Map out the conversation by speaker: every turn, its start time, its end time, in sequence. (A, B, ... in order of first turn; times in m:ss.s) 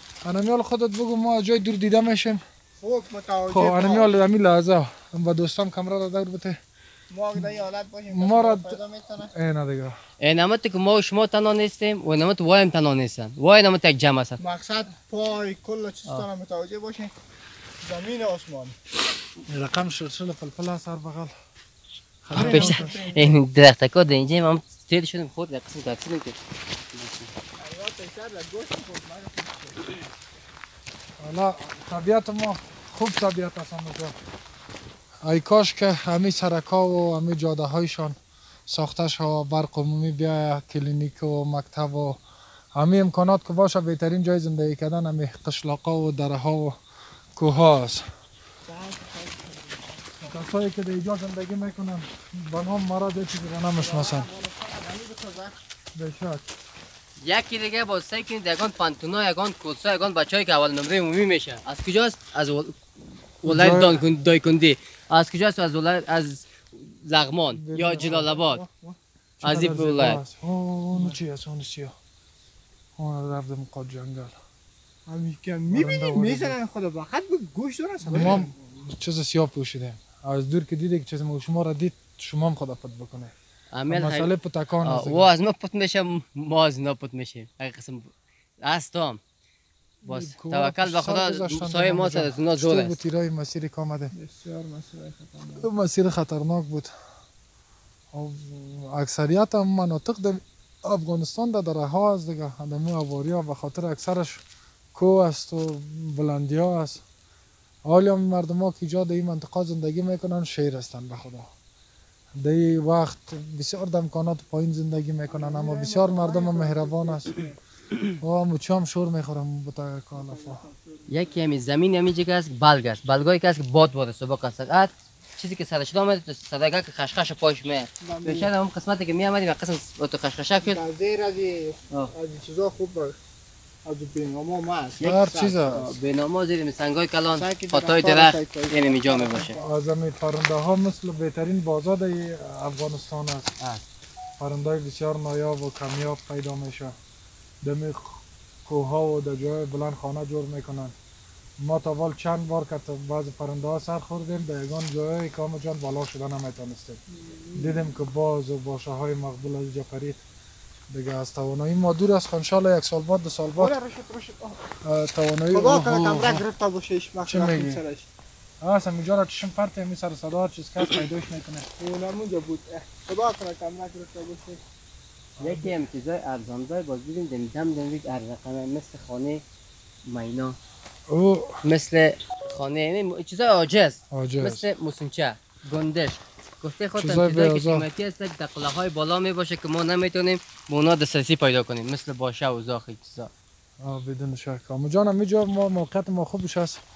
0:00.2-0:02.4 A
0:02.8-0:04.2 B
0:03.5-0:06.6 A
0:07.1-0:09.3 B
0:08.1-0:08.8 A
0:09.3-0:10.0 A
0:10.2-0:14.4 C
0:14.4-0:17.1 B
0:17.8-0:18.8 B
0:19.5-0:21.3 A
0:22.2-0:23.1 A
0:22.3-0:23.4 B
0:22.3-0:26.4 C
0:26.9-0:27.3 C
0:27.6-0:29.9 B
0:31.2-0:34.1 A
0:35.2-0:38.2 A
0:38.7-0:42.2 A
0:42.7-0:46.8 A
0:47.4-0:48.0 A
0:48.7-0:50.5 B
0:50.3-0:54.3 A
0:53.8-0:55.6 B
0:55.9-0:56.5 A
0:57.2-1:02.8 C
1:03.4-1:08.6 C
1:03.4-1:04.1 A
1:07.5-1:08.3 A
1:07.9-1:09.0 B
1:09.4-1:11.9 A
1:09.4-1:10.2 C
1:13.0-1:14.3 A
1:15.1-1:18.5 B
1:15.7-1:16.6 A
1:18.1-1:18.4 C
1:18.1-1:23.3 A
1:23.7-1:24.3 C
1:23.9-1:25.3 A
1:24.8-1:28.1 C
1:28.6-1:29.2 C
1:30.0-1:34.1 A
1:30.0-1:33.0 C
1:34.1-1:35.7 B
1:35.6-1:36.9 A
1:38.1-1:44.4 A
1:44.9-1:47.0 A
1:47.8-1:51.5 A
1:52.4-1:57.4 A
1:55.3-1:57.6 B
1:58.2-2:00.6 A
2:00.1-2:01.4 B
2:01.1-2:10.8 C
2:08.0-2:08.5 B
2:10.6-2:13.2 B
2:13.8-2:15.9 B
2:15.0-2:15.8 A
2:15.7-2:19.6 C
2:17.3-2:19.7 B
2:19.5-2:23.5 A
2:24.4-2:26.9 A
2:27.6-2:30.9 A
2:31.6-2:37.0 A
2:37.1-2:37.9 B
2:37.5-2:40.2 A
2:40.9-2:43.7 A
2:43.6-2:44.6 B
2:44.8-2:46.4 A
2:45.5-2:48.1 B
2:47.2-2:47.8 A
2:48.6-2:51.6 A
2:51.8-2:54.6 B
2:55.4-2:59.4 C
2:55.4-2:55.8 A
3:00.0-3:00.6 C
3:01.1-3:01.6 A
3:01.6-3:13.3 C
3:04.1-3:04.7 A
3:07.0-3:07.9 A
3:13.8-3:16.8 A